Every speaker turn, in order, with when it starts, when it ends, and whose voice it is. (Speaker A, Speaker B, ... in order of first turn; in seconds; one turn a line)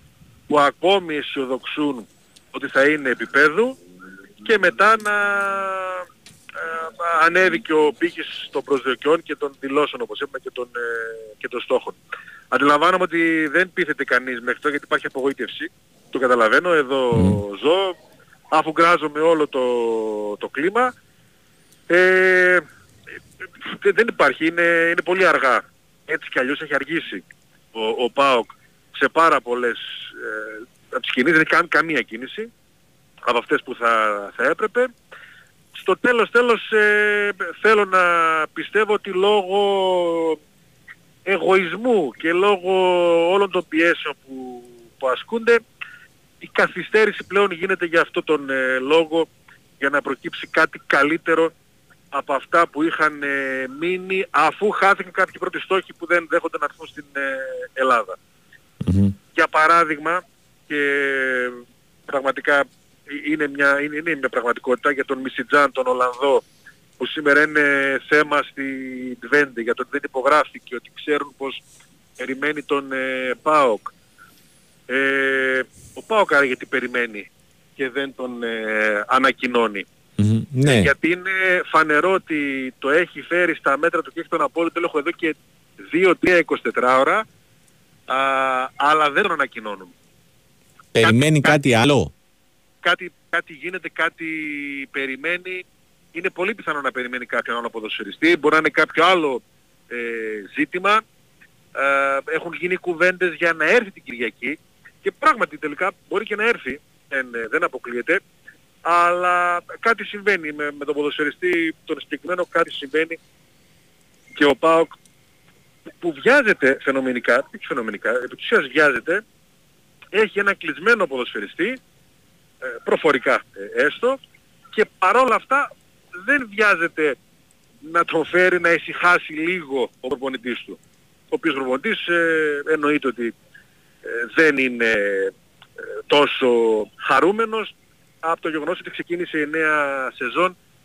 Speaker A: 0.5-3.8
Speaker A: 4.4-6.0
Speaker A: 6.6-12.0
Speaker A: 12.5-17.9
Speaker A: 18.5-20.9
Speaker A: 21.9-22.6
Speaker A: 23.8-27.2
Speaker A: 27.7-32.5
Speaker A: 33.2-34.9
Speaker A: 35.8-40.4
Speaker A: 41.3-45.6
Speaker A: 46.4-49.3
Speaker A: 49.8-51.5
Speaker A: 52.1-58.2
Speaker B: 58.8-59.1
Speaker A: 59.4-61.5
Speaker A: 62.1-66.4
Speaker A: 67.0-71.6
Speaker A: 72.2-73.9
Speaker A: 74.9-79.9
Speaker B: 80.2-80.9
Speaker A: 80.6-85.4
Speaker A: 85.9-87.2
Speaker A: 88.1-89.9
Speaker B: 91.0-92.1
Speaker A: 91.0-91.6
Speaker A: 92.8-95.6
Speaker A: 96.1-101.0
Speaker A: 101.8-108.2
Speaker A: 108.8-113.2
Speaker A: 114.3-114.9
Speaker A: 116.0-119.2
Speaker A: 120.1-121.8
Speaker A: 122.8-124.2
Speaker A: 124.7-125.7
Speaker A: 126.2-127.2
Speaker A: 127.8-130.8
Speaker A: 131.3-133.3
Speaker A: 134.1-135.3
Speaker A: 136.1-140.6